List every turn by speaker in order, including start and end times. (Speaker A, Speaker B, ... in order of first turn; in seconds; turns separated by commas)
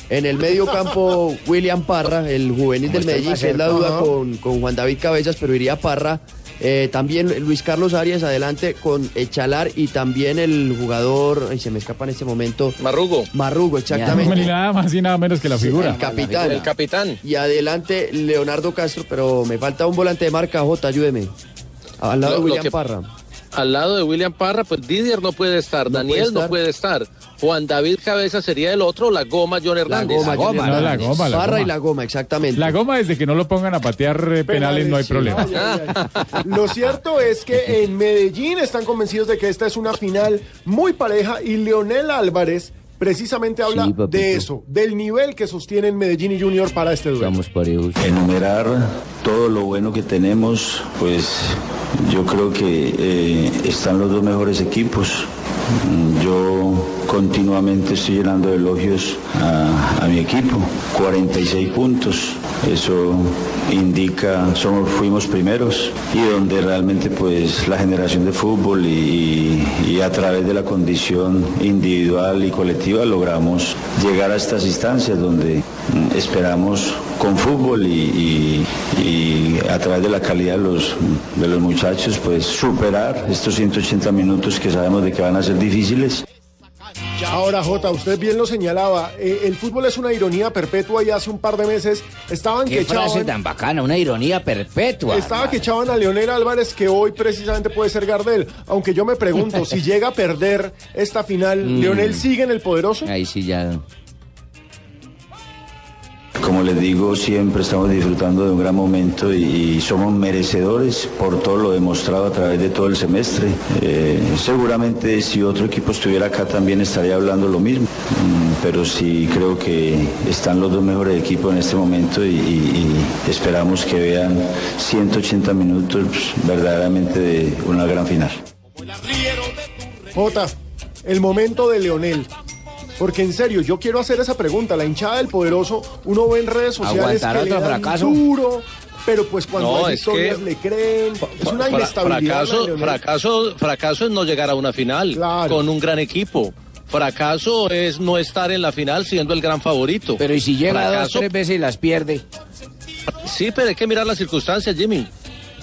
Speaker A: 0.1-12.8, Speaker B: 2.9-4.1, Speaker C: 12.8-13.3, Speaker A: 13.3-14.5, Speaker B: 13.9-14.5, Speaker D: 14.1-16.0, Speaker A: 15.6-16.7, Speaker B: 15.7-16.6, Speaker C: 16.4-17.2, Speaker A: 17.2-21.3, Speaker A: 22.0-23.1, Speaker C: 22.2-22.7, Speaker C: 23.5-30.6, Speaker A: 25.9-26.6, Speaker A: 29.9-32.8, Speaker B: 30.1-31.3, Speaker D: 30.6-31.7, Speaker D: 32.6-35.6, Speaker E: 34.5-47.4, Speaker C: 35.6-36.0, Speaker B: 43.7-44.5, Speaker B: 47.2-48.2, Speaker F: 48.0-86.2, Speaker E: 87.3-93.3, Speaker B: 92.7-95.7, Speaker E: 95.0-103.1, Speaker B: 101.6-102.2, Speaker B: 103.0-103.8, Speaker F: 106.4-128.4, Speaker E: 130.1-132.3, Speaker E: 133.0-143.0, Speaker B: 136.8-138.2, Speaker C: 139.6-140.4, Speaker C: 141.4-151.3, Speaker E: 145.1-145.6, Speaker B: 150.2-152.2, Speaker C: 153.2-155.1